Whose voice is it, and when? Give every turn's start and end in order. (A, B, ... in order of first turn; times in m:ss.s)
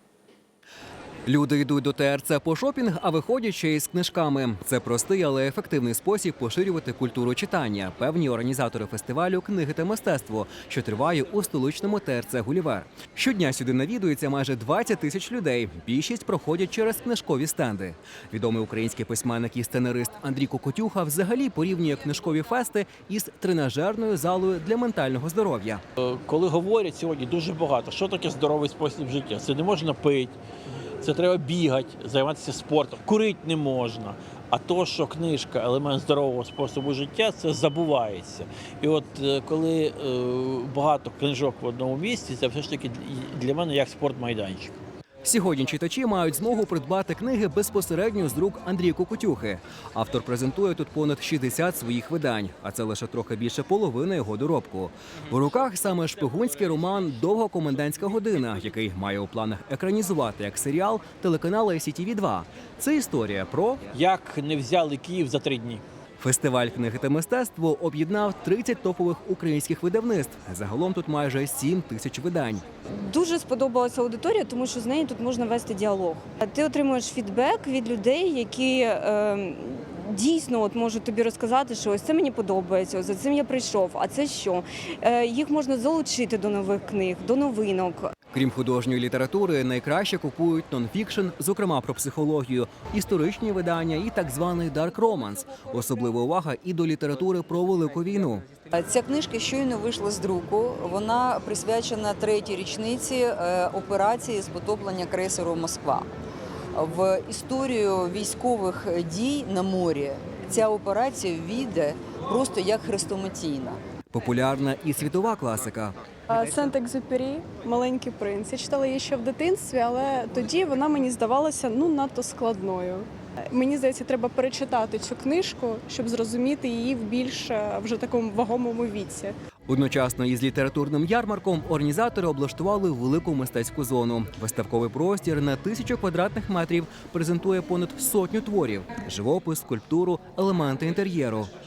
0:01.3-0:25.8 A
0:26.0-0:30.4 B
0:31.0-0:44.8 B
0:45.2-1:03.8 A
1:03.9-1:05.8 B
1:06.2-1:12.6 A
1:13.0-1:28.1 C
1:28.3-1:38.4 A
1:38.8-1:46.1 D
1:46.8-1:53.8 D
1:54.1-1:56.0 A
1:56.3-2:09.3 E
2:09.7-2:21.5 A